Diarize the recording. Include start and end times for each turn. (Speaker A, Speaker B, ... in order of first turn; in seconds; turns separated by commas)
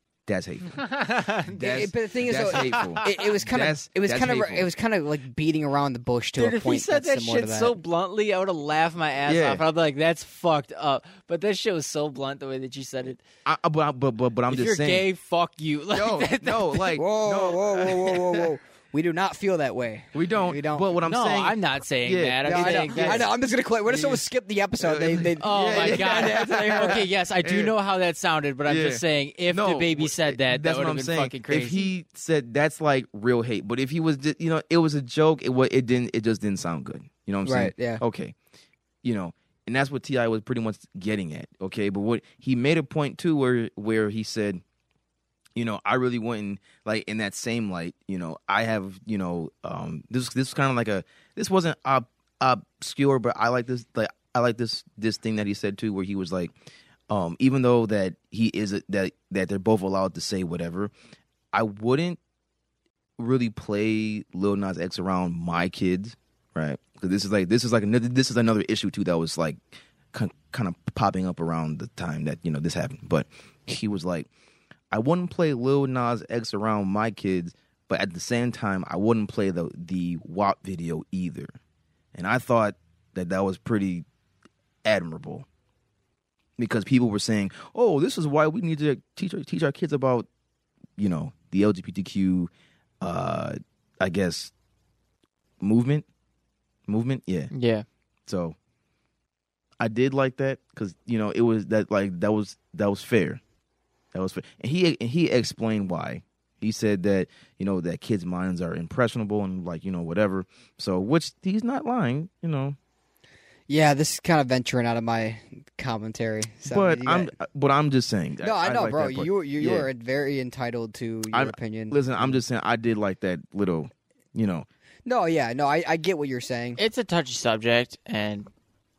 Speaker A: 0.3-0.8, Speaker B: 0.7-1.7, Speaker A: 1.5-4.7, Speaker C: 1.6-7.7, Speaker B: 2.5-3.1, Speaker B: 6.4-13.2, Speaker A: 9.3-9.6, Speaker A: 13.4-15.1, Speaker B: 14.5-17.0, Speaker A: 15.9-18.5, Speaker C: 16.9-20.9, Speaker A: 20.1-23.3, Speaker B: 21.0-23.2, Speaker C: 22.4-27.0, Speaker A: 23.9-24.2, Speaker A: 24.8-27.7, Speaker B: 25.4-31.9, Speaker A: 28.6-38.3, Speaker C: 37.4-38.0, Speaker A: 39.0-44.6, Speaker A: 45.5-56.5, Speaker A: 57.1-60.9, Speaker A: 61.5-62.2, Speaker A: 63.2-69.6, Speaker A: 70.1-74.3, Speaker A: 74.9-81.5, Speaker A: 82.1-84.0, Speaker A: 84.8-85.5, Speaker A: 86.6-90.3, Speaker A: 91.0-92.5, Speaker A: 93.0-94.5, Speaker A: 95.6-96.0, Speaker A: 96.9-97.5, Speaker B: 97.5-97.8, Speaker A: 98.3-98.5, Speaker A: 99.8-103.4, Speaker A: 104.1-112.8, Speaker C: 113.7-117.3, Speaker A: 116.7-119.9, Speaker C: 118.4-122.4, Speaker A: 121.3-124.7, Speaker C: 125.0-126.8, Speaker B: 126.8-128.5